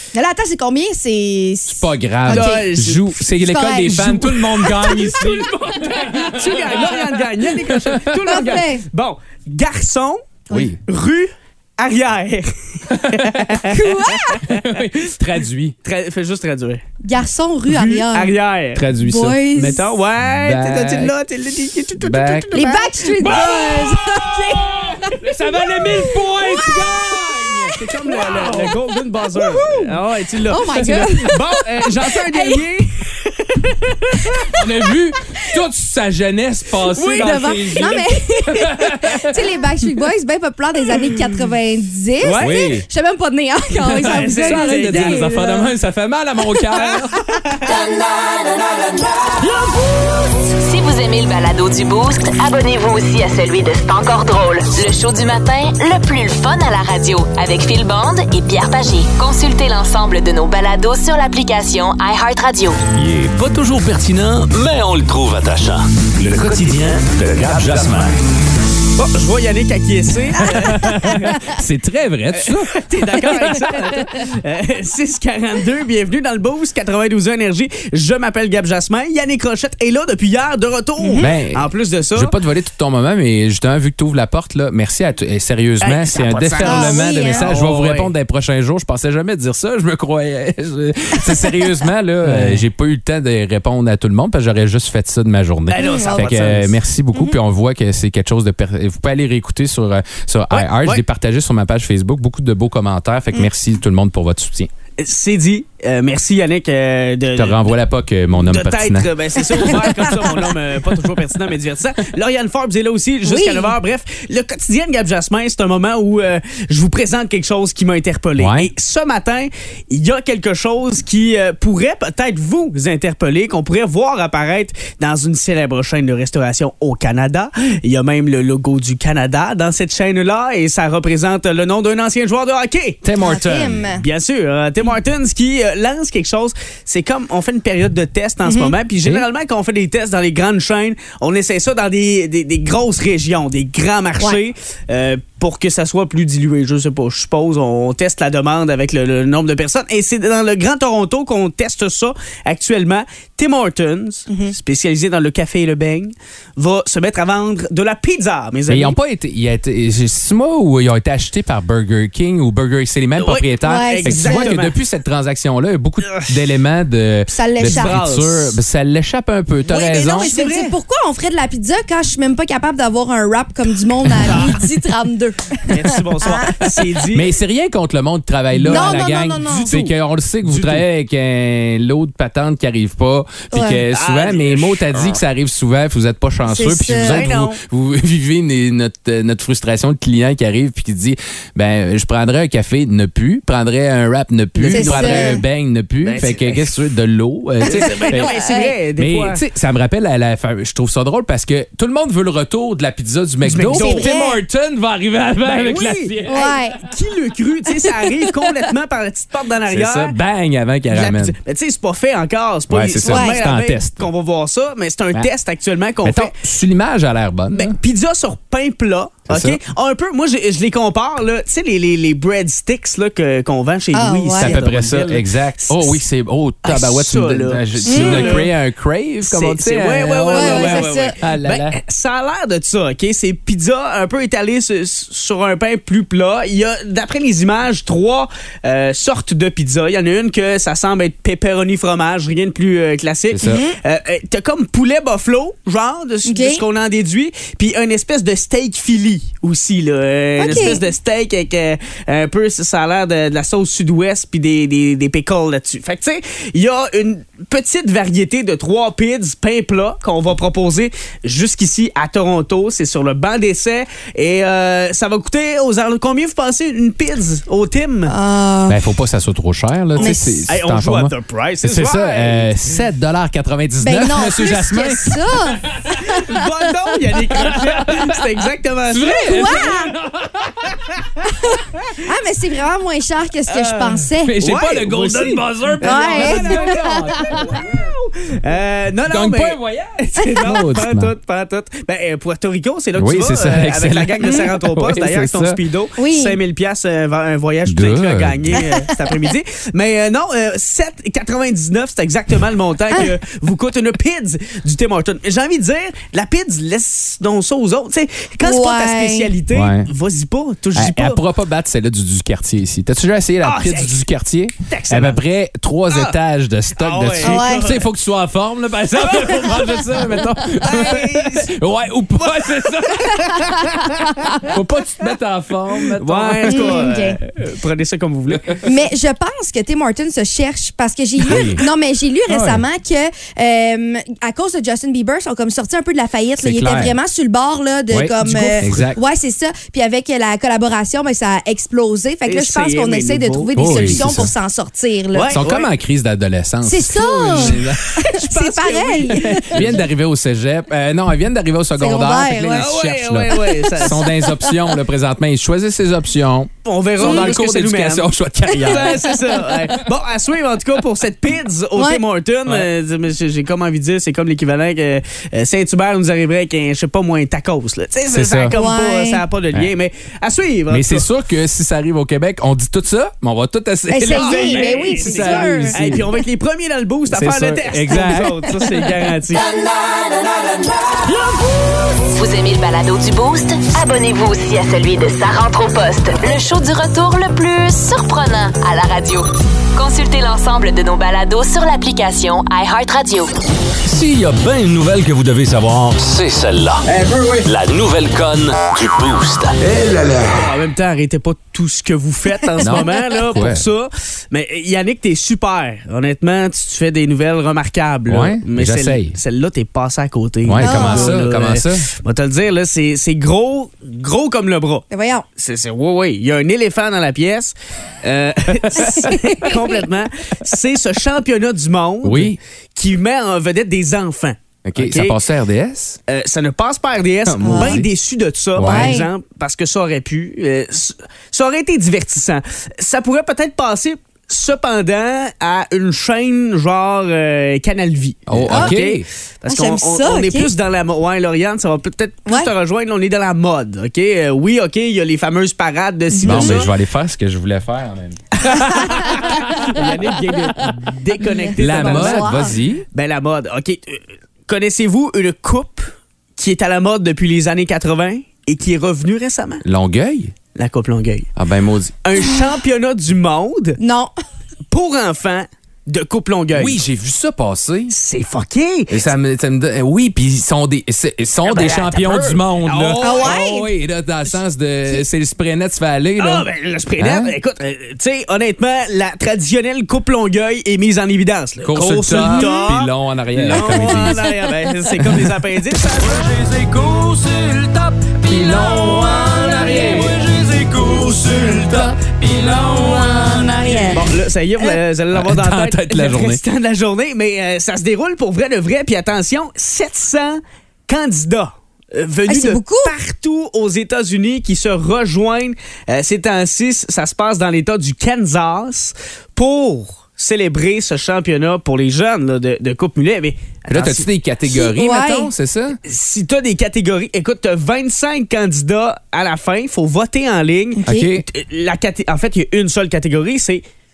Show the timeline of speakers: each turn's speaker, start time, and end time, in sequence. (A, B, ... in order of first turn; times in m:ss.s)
0:00.1-0:02.7 A
0:01.7-0:08.2 B
0:02.3-0:05.0 C
0:03.4-0:05.5 A
0:05.8-0:15.2 C
0:08.2-0:08.8 A
0:10.5-0:10.8 B
0:12.9-0:13.6 B
0:13.7-0:14.4 A
0:14.4-0:15.8 B
0:15.8-0:16.8 C
0:17.0-0:18.3 A
0:17.7-0:18.9 C
0:18.8-0:19.4 B
0:19.0-0:20.0 A
0:19.5-0:23.7 C
0:20.2-0:21.1 B
0:22.0-0:22.6 B
0:22.5-0:28.7 A
0:23.2-0:28.8 B
0:27.8-0:34.5 C
0:29.4-0:29.9 A
0:30.5-0:32.6 A
0:34.2-0:34.6 A
0:34.5-0:39.4 B
0:37.0-0:45.6 A
0:37.0-0:37.4 C
0:42.2-0:42.6 C
0:42.4-0:42.9 B
0:43.9-0:47.3 B
0:44.0-0:45.5 C
0:47.4-0:47.8 C
0:50.5-1:02.8 D
1:03.0-1:08.2 E
1:09.0-1:11.5 C
1:10.4-1:13.4 B
1:10.7-1:11.1 A
1:12.3-1:22.4 C
1:21.0-1:21.3 A
1:21.2-1:44.7 B
1:25.8-1:28.1 C
1:26.6-1:27.5 A
1:32.2-1:32.6 C
1:35.7-1:36.8 C
1:35.8-1:36.3 A
1:40.5-1:41.0 C
1:45.0-1:47.7 C
1:47.4-1:49.1 B
1:48.4-2:13.0 C
1:49.7-1:49.9 B
1:53.2-1:53.8 A
1:58.4-1:58.7 B
2:13.0-2:13.9 B
2:13.2-2:14.0 A
2:14.0-2:39.0 C
2:18.4-2:18.7 A
2:34.3-2:34.5 A
2:38.7-2:50.3 B
2:43.2-2:44.8 C
2:43.6-2:44.5 A
2:46.0-2:46.4 C
2:47.3-2:48.0 A
2:47.6-2:48.6 C
2:49.7-2:50.8 C
2:49.9-2:56.8 A
2:54.2-2:54.6 C
2:55.7-2:57.3 C
2:57.1-3:18.3 B
2:58.6-2:59.8 A
2:58.6-2:59.9 C
3:00.4-3:00.8 C
3:03.5-3:03.8 A
3:03.9-3:05.2 C
3:06.4-3:07.2 A
3:07.0-3:07.6 C
3:14.6-3:15.4 C
3:14.7-3:15.4 A
3:16.0-3:16.7 C
3:17.6-3:19.4 C
3:18.1-3:18.7 A
3:19.0-3:26.7 B
3:23.4-3:24.1 C
3:23.7-3:24.4 A
3:25.4-3:30.2 C
3:26.3-3:26.8 A
3:27.8-3:28.3 A
3:29.7-3:31.4 B
3:30.9-3:36.4 C
3:32.7-3:34.1 B
3:33.0-3:33.4 A
3:36.0-3:37.8 B
3:37.5-3:46.0 C
3:39.3-3:39.6 B
3:43.9-3:44.6 A
3:44.4-3:51.8 B
3:46.6-3:48.5 C
3:47.9-3:48.4 A
3:49.2-4:28.1 C
3:50.3-3:51.1 A
4:03.3-4:03.6 B
4:03.4-4:03.8 A
4:06.3-4:06.6 A
4:10.4-4:10.8 A
4:28.1-4:28.8 A
4:28.7-4:36.1 B
4:30.0-4:30.5 A
4:30.0-4:32.6 C
4:33.8-4:36.5 A
4:36.0-4:39.7 C
4:37.3-4:38.3 B
4:38.9-4:40.9 B
4:39.1-4:40.0 A
4:41.3-4:44.4 A
4:43.5-5:11.2 C
4:44.2-4:47.9 B
4:45.8-4:47.4 A
4:49.1-4:51.1 B
4:53.0-4:55.6 B
4:56.0-4:56.4 A
4:57.7-4:58.6 B
4:58.6-4:59.1 A
5:08.4-5:09.3 A
5:09.5-5:09.9 B
5:10.8-5:26.9 B
5:13.4-5:14.0 C
5:14.7-5:15.2 C
5:15.9-5:16.2 C
5:16.8-5:17.9 C
5:17.2-5:17.7 A
5:19.1-5:20.0 C
5:20.5-5:21.6 C
5:22.2-5:24.5 C
5:26.0-5:28.6 C
5:26.5-5:27.2 A
5:28.3-5:28.6 B
5:28.6-5:45.4 A
5:31.2-5:31.6 B
5:32.3-5:32.6 B
5:36.4-5:37.0 B
5:37.9-5:39.0 B
5:42.3-5:44.2 C
5:43.6-5:44.3 B
5:45.1-5:45.7 C
5:45.3-5:47.8 B
5:46.6-5:49.6 A
5:47.4-5:49.8 C
5:49.4-5:59.2 B
5:51.8-5:52.8 A
5:52.5-5:54.1 C
5:53.3-5:54.4 A
5:56.6-5:58.1 C
5:57.0-5:57.3 A
5:58.5-5:59.2 A
5:58.6-6:11.1 C
6:01.8-6:02.0 A
6:08.1-6:08.5 B
6:08.5-6:09.2 A
6:10.7-6:16.1 B
6:13.9-6:15.8 A
6:14.1-6:19.5 C
6:17.1-6:18.4 B
6:22.1-6:33.3 D
6:33.8-6:40.4 E
6:40.3-6:54.9 C
6:42.6-6:43.7 B
6:48.1-6:49.2 B
6:50.4-6:51.9 B
6:50.6-6:51.1 A
6:54.9-6:55.2 A
6:55.4-7:05.2 C
6:58.8-6:59.8 A
7:02.0-7:02.4 B
7:04.6-7:06.0 B
7:06.1-7:26.7 C
7:07.3-7:07.9 B
7:07.4-7:07.8 A
7:08.6-7:09.0 B
7:08.6-7:09.1 A
7:18.3-7:19.1 B
7:19.5-7:20.5 A
7:26.1-7:26.6 A
7:26.2-7:29.4 B
7:28.5-7:29.4 A
7:28.7-7:39.6 C
7:31.2-7:32.5 A
7:31.6-7:32.8 B
7:39.6-7:40.4 B
7:40.6-7:41.3 C
7:41.4-7:42.0 B
7:42.0-7:43.8 C
7:43.8-7:44.1 A
7:44.7-7:46.8 C
7:46.5-7:48.0 B
7:47.9-7:49.1 C
7:48.9-7:56.5 B
7:51.4-7:53.4 C
7:53.0-7:53.7 A
7:56.2-8:06.6 C
7:57.0-7:57.3 B
8:01.6-8:04.2 B
8:02.3-8:02.7 A
8:04.0-8:04.3 A
8:08.3-8:12.2 B
8:08.7-8:10.5 A
8:11.3-8:11.7 A
8:12.4-8:14.1 A
8:13.9-8:34.1 C
8:15.1-8:16.4 B
8:22.3-8:22.9 A
8:33.7-8:35.8 B
8:34.5-8:35.3 A
8:35.8-8:43.6 C
8:40.8-8:41.1 A
8:40.9-8:41.3 B